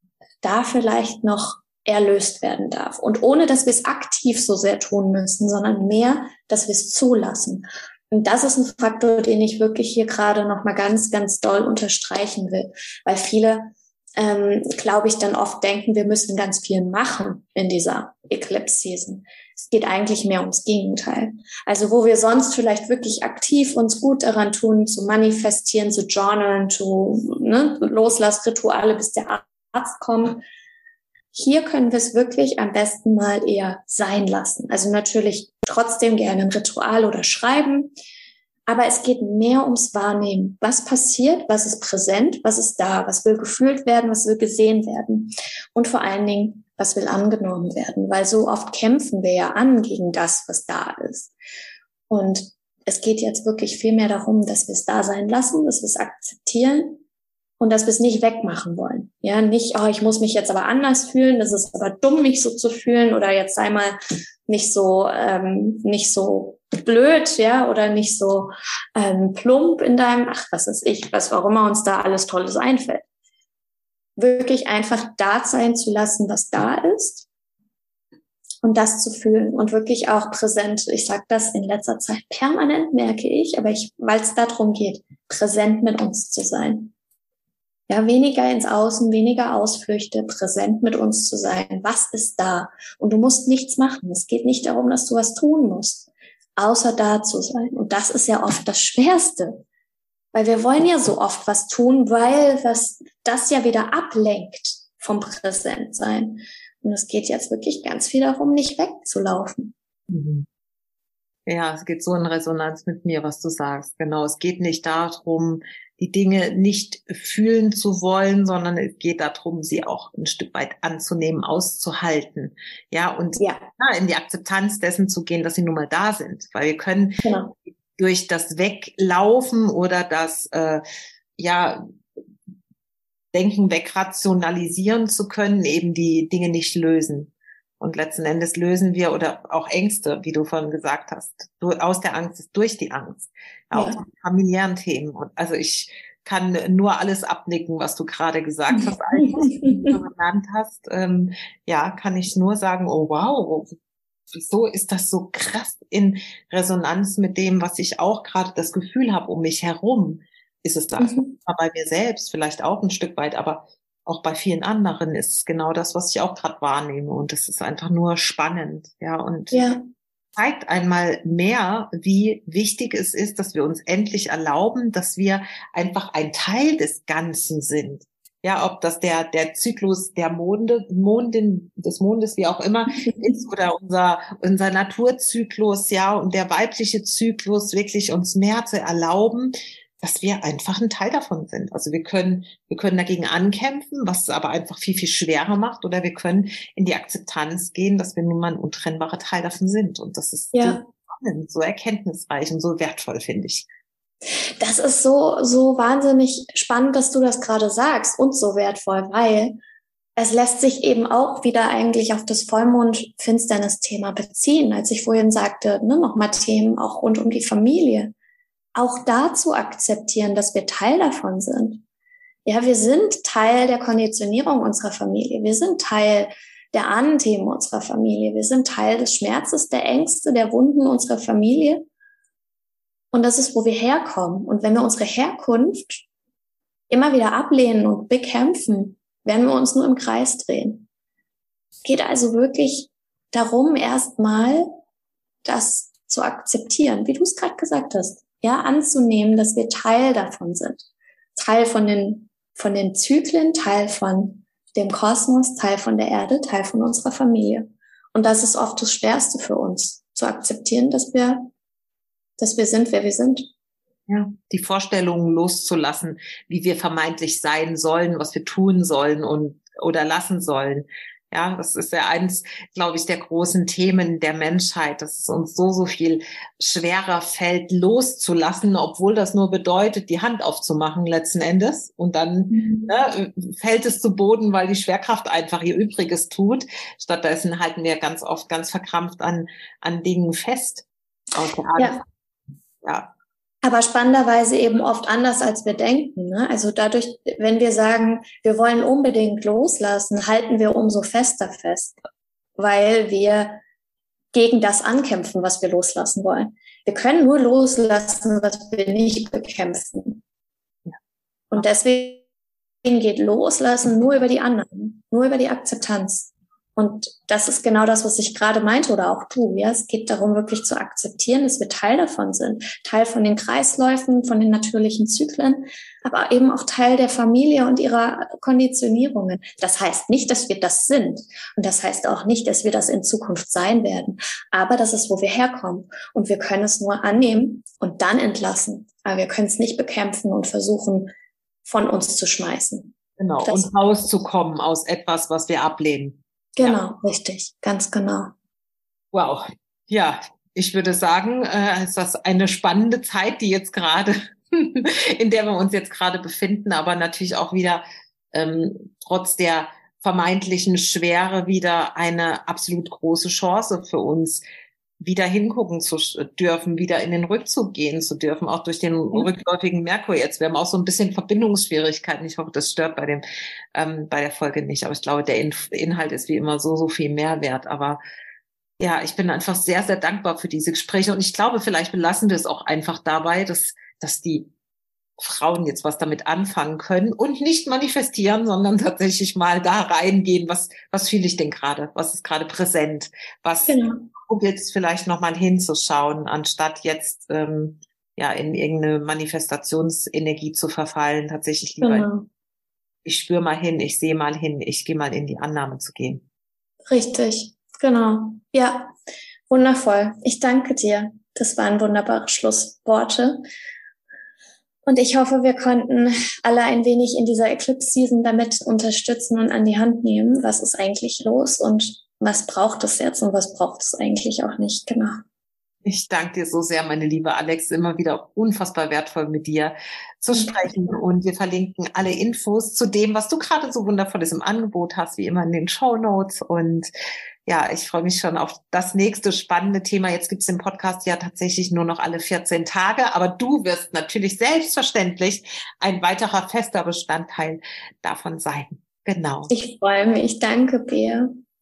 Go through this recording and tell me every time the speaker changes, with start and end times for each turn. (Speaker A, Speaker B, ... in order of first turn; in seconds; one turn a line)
Speaker A: 0.4-30.4
Speaker A: 31.3-37.9
Speaker A: 38.7-51.3
Speaker A: 52.1-57.0
Speaker A: 57.6-73.0
Speaker A: 74.2-77.3
Speaker A: 78.6-86.9
Speaker A: 87.9-99.6
Speaker A: 100.3-109.7
Speaker B: 110.1-110.5
Speaker B: 111.5-127.3
Speaker A: 123.4-123.7
Speaker A: 127.2-127.5
Speaker B: 128.0-130.8
Speaker B: 131.4-131.9
Speaker B: 133.3-153.7
Speaker A: 143.7-144.0
Speaker A: 148.7-150.0
Speaker B: 154.3-169.7
Speaker A: 161.0-161.4
Speaker A: 169.5-169.8
Speaker B: 170.4-203.7
Speaker A: 200.5-200.8
Speaker A: 204.6-209.6
Speaker A: 210.2-218.1
Speaker A: 218.8-221.8
Speaker A: 222.5-231.9
Speaker A: 233.1-236.1
Speaker A: 236.9-240.9
Speaker A: 241.8-244.7
Speaker A: 245.4-250.8
Speaker A: 251.4-261.5
Speaker A: 262.4-263.5
Speaker B: 264.1-292.0
Speaker A: 282.5-282.9
Speaker A: 291.8-292.0
Speaker B: 292.8-293.1
Speaker A: 293.6-302.0
Speaker A: 302.6-303.6
Speaker A: 304.3-310.2
Speaker A: 311.5-312.2
Speaker A: 312.8-341.1
Speaker A: 341.6-343.7
Speaker B: 343.2-346.8
Speaker A: 346.6-348.3
Speaker B: 349.1-364.4
Speaker B: 365.0-373.2
Speaker B: 373.7-378.0
Speaker B: 378.8-384.5
Speaker B: 385.2-402.1
Speaker A: 393.7-394.1
Speaker A: 401.8-402.3
Speaker B: 403.1-406.2
Speaker A: 406.9-408.9
Speaker A: 409.5-413.4
Speaker A: 414.9-425.2
Speaker B: 425.9-436.9
Speaker A: 430.3-430.8
Speaker B: 437.5-449.5
Speaker A: 449.5-451.3